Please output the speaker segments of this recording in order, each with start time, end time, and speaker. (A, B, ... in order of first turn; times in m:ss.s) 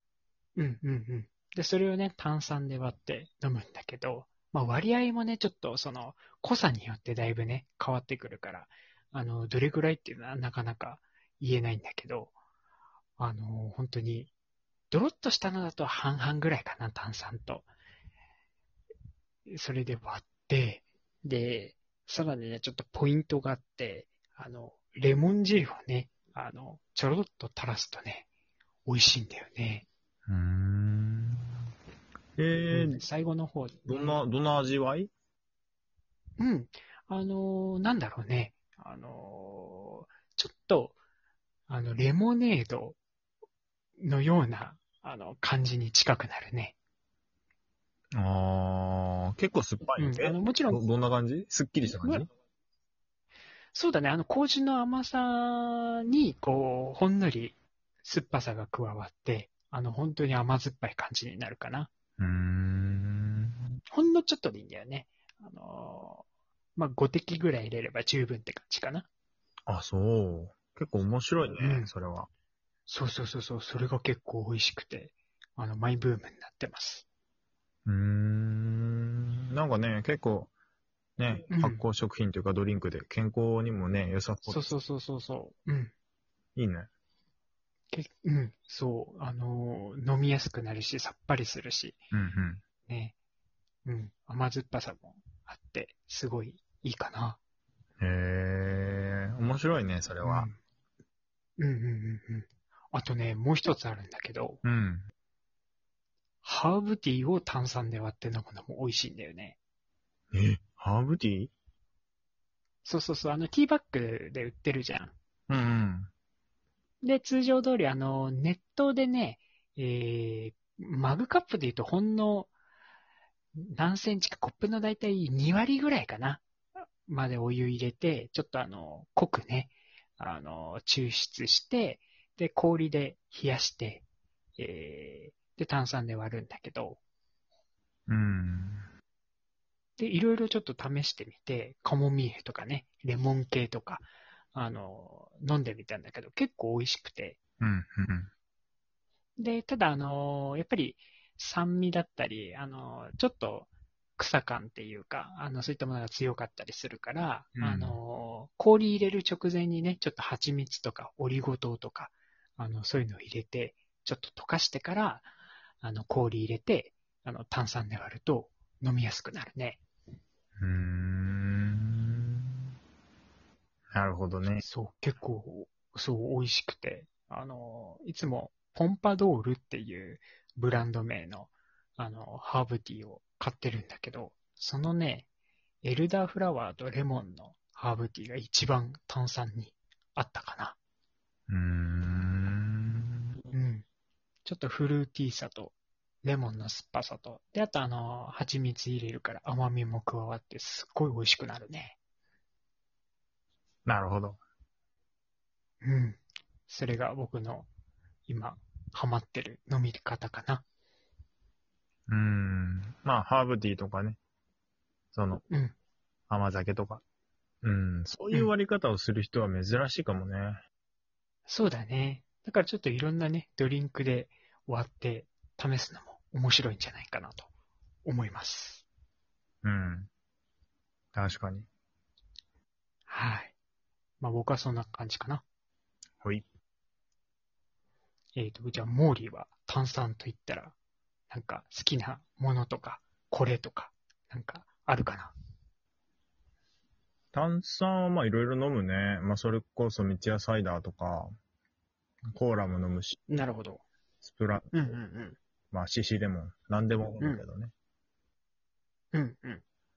0:00.6-0:12.3 A
0:13.2-0:14.3 A
0:14.9-0:17.7 A
0:19.5-0:28.3 A
0:28.9-0:29.9 A
0:30.3-0:31.6 B
0:32.4-0:33.0 B
0:32.7-0:34.2 A
0:33.9-0:35.1 B
0:36.4-0:41.0 A
0:41.7-0:43.0 A
0:44.0-0:46.8 A
0:48.2-0:52.3 B
0:50.0-0:50.8 A
0:53.7-1:01.9 A
1:02.2-1:03.6 B
1:03.9-1:09.1 A
1:09.7-1:12.3 B
1:11.6-1:11.9 A
1:12.9-1:17.0 A
1:17.9-1:20.5 B
1:21.2-1:24.7 B
1:21.5-1:21.8 A
1:24.5-1:25.9 A
1:26.6-1:26.9 B
1:27.9-1:32.0 A
1:32.1-1:32.6 B
1:32.9-1:33.2 A
1:33.8-1:37.4 A
1:38.0-1:40.5 B
1:40.2-1:40.6 A
1:41.6-1:44.6 A
1:44.6-1:45.1 B
1:46.4-1:49.6 A
1:50.3-1:51.5 B
1:52.8-1:55.1 A
1:55.5-1:56.1 B
1:57.0-2:02.5 A
2:03.6-2:06.4 A
2:07.1-2:14.0 A
2:14.6-2:17.0 A
2:18.1-2:18.9 B
2:20.0-2:27.4 A
2:27.6-2:28.3 B
2:29.4-2:45.3 A
2:37.6-2:38.0 B
2:45.8-2:49.8 A
2:50.6-2:52.6 B
2:53.9-2:54.6 B
2:54.6-3:05.3 A
3:05.8-3:10.8 A
3:11.5-3:13.4 B
3:13.5-3:13.8 A
3:14.4-3:22.0 A
3:23.9-3:24.4 B
3:25.8-3:27.7 A
3:28.3-3:30.6 A
3:32.1-3:34.2 B
3:35.1-3:35.4 B
3:35.5-3:35.8 A
3:36.3-3:37.0 B
3:37.6-3:40.6 B
3:41.5-3:47.5 A
3:48.0-3:48.8 A
3:49.6-3:50.1 B
3:51.2-3:51.7 B
3:53.1-3:53.5 A
3:54.2-3:55.4 A
3:58.4-4:00.8 A
4:01.3-4:05.3 A
4:07.3-4:11.3 B
4:12.3-4:13.2 B
4:13.3-4:13.8 A
4:14.2-4:14.7 B
4:14.7-4:15.4 A
4:15.7-4:17.7 B
4:19.1-4:19.6 A